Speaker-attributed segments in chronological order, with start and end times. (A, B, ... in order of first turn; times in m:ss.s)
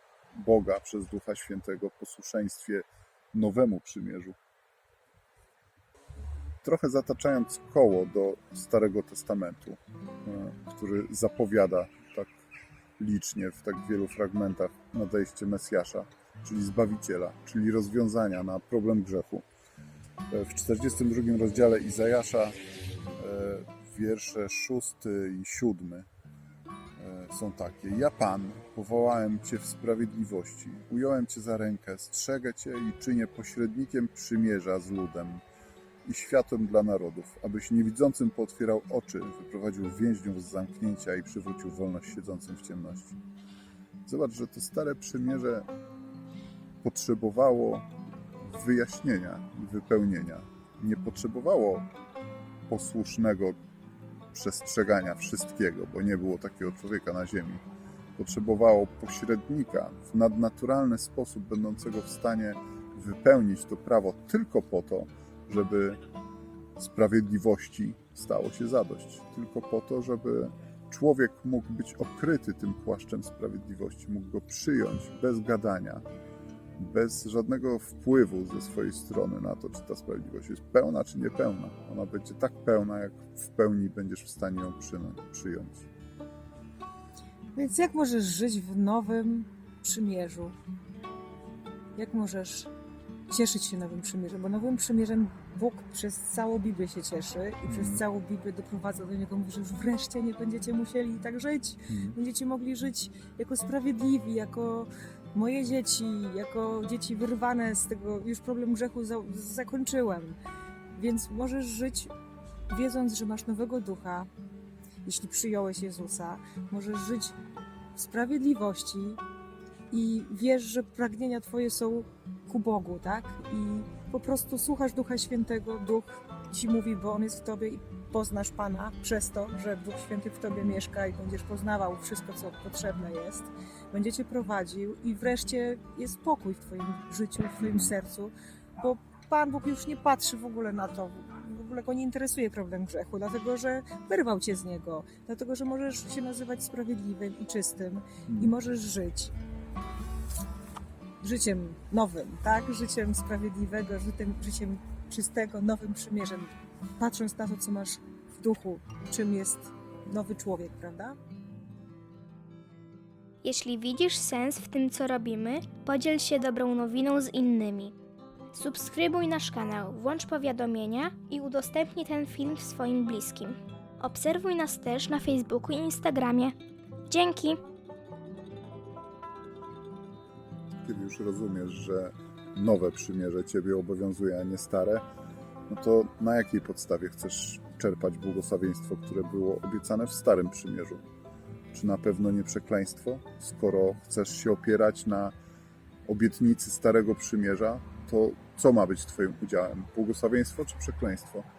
0:00.3-0:04.4 A
0:06.6-0:12.4 A
0:13.0-0:19.5 A
0:20.3-0:22.6 A
0:23.2-0:26.1 A
0:27.0-0:35.4 A
0:36.0-0:43.2 A
0:44.0-0:45.7 A
0:46.8-0:47.9 A
0:48.4-0:51.9 A
0:52.7-0:53.6 A
0:54.3-0:57.6 A
0:58.2-1:06.0 A
1:06.8-1:16.0 A
1:16.8-1:25.9 A
1:27.5-1:30.6 B
1:32.0-1:32.7 B
1:33.3-1:50.4 B
1:37.7-1:38.0 A
1:41.9-1:42.2 A
1:50.9-1:52.1 B
1:52.7-1:54.3 B
1:55.0-1:57.4 B
1:58.0-1:59.2 B
1:59.9-2:29.3 B
2:17.6-2:17.9 A
2:28.2-2:28.5 A
2:31.2-2:41.2 B
2:43.4-2:48.0 C
2:48.5-2:56.6 C
2:57.1-2:57.6 C
3:00.8-3:05.0 A
3:05.7-3:11.0 A
3:11.7-3:15.3 A
3:16.0-3:21.5 A